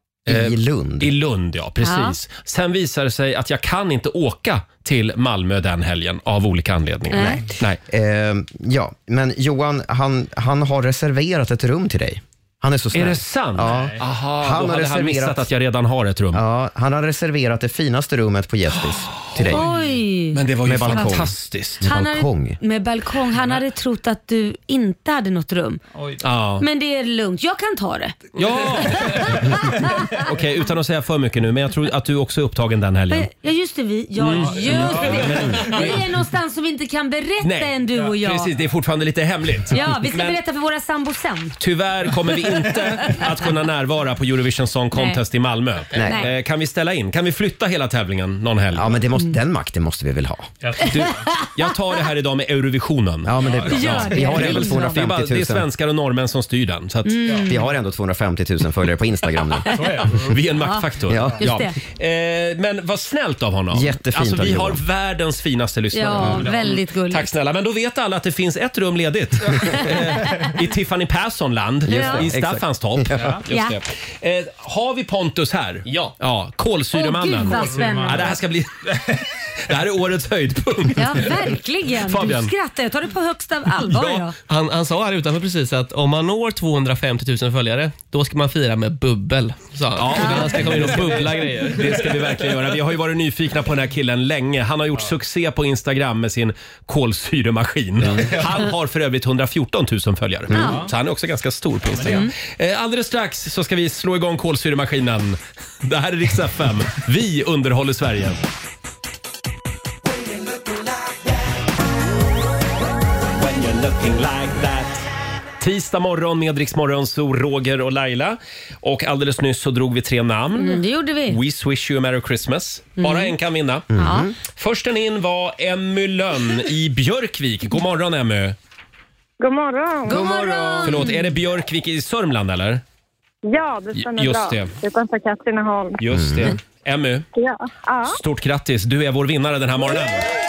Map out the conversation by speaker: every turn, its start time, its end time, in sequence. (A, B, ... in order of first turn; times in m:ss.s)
0:00.3-0:01.1 A
0:00.3-0:07.8 B
0:01.8-0:02.2 C
0:07.1-0:07.4 C
0:07.1-0:15.5 A
0:12.9-0:16.4 B
0:13.6-0:14.0 D
0:16.3-0:19.6 A
0:19.3-0:19.6 B
0:19.5-0:21.2 C
0:20.3-0:21.8 B
0:20.6-0:22.6 A
0:21.8-0:25.8 C
0:25.9-0:26.2 D
0:26.2-0:26.6 B
0:26.6-0:28.2 C
0:28.4-0:29.4 B
0:28.8-0:30.2 C
0:29.2-0:29.6 D
0:30.1-0:33.3 B
0:33.1-0:38.5 C
0:34.2-0:36.0 B
0:34.4-0:35.9 D
0:37.4-0:40.4 B
0:39.7-0:41.6 C
0:41.6-0:49.0 B
0:44.9-0:45.2 C
0:45.9-0:46.3 A
0:46.0-0:46.3 C
0:48.7-0:50.5 A
0:50.6-0:50.9 D
0:50.8-0:57.4 B
0:51.2-0:51.5 C
0:53.2-0:55.7 A
0:53.4-0:53.7 D
0:53.7-0:54.9 C
0:57.0-0:57.6 C
0:57.4-1:00.0 A
0:59.6-0:59.9 C
0:59.7-1:00.4 D
1:00.2-1:22.5 B
1:00.6-1:00.9 C
1:01.1-1:01.4 A
1:01.4-1:01.7 C
1:03.7-1:04.8 A
1:05.9-1:07.3 C
1:06.2-1:06.8 D
1:10.0-1:10.4 C
1:11.8-1:13.4 A
1:11.9-1:12.2 C
1:13.2-1:13.4 D
1:13.5-1:13.8 C
1:15.8-1:16.1 E
1:16.9-1:18.4 C
1:17.4-1:18.3 D
1:20.9-1:24.3 C
1:24.5-1:32.2 E
1:29.9-1:48.4 B
1:30.2-1:30.6 C
1:40.5-1:40.9 D
1:40.5-1:40.9 C
1:41.9-1:42.2 D
1:42.0-1:42.3 C
1:53.3-1:55.0 B
1:55.6-2:03.9 B
2:00.5-2:01.4 C
2:03.0-2:03.3 C
2:03.9-2:04.3 A
2:04.0-2:04.3 C
2:04.5-2:08.6 B
2:09.4-2:10.2 F
2:10.1-2:11.3 C
2:10.2-2:11.0 A
2:10.2-2:12.8 B
2:13.4-2:16.0 F
2:13.9-2:14.7 B
2:16.0-2:17.2 B
2:16.1-2:16.6 A
2:17.4-2:18.2 F
2:18.1-2:20.2 B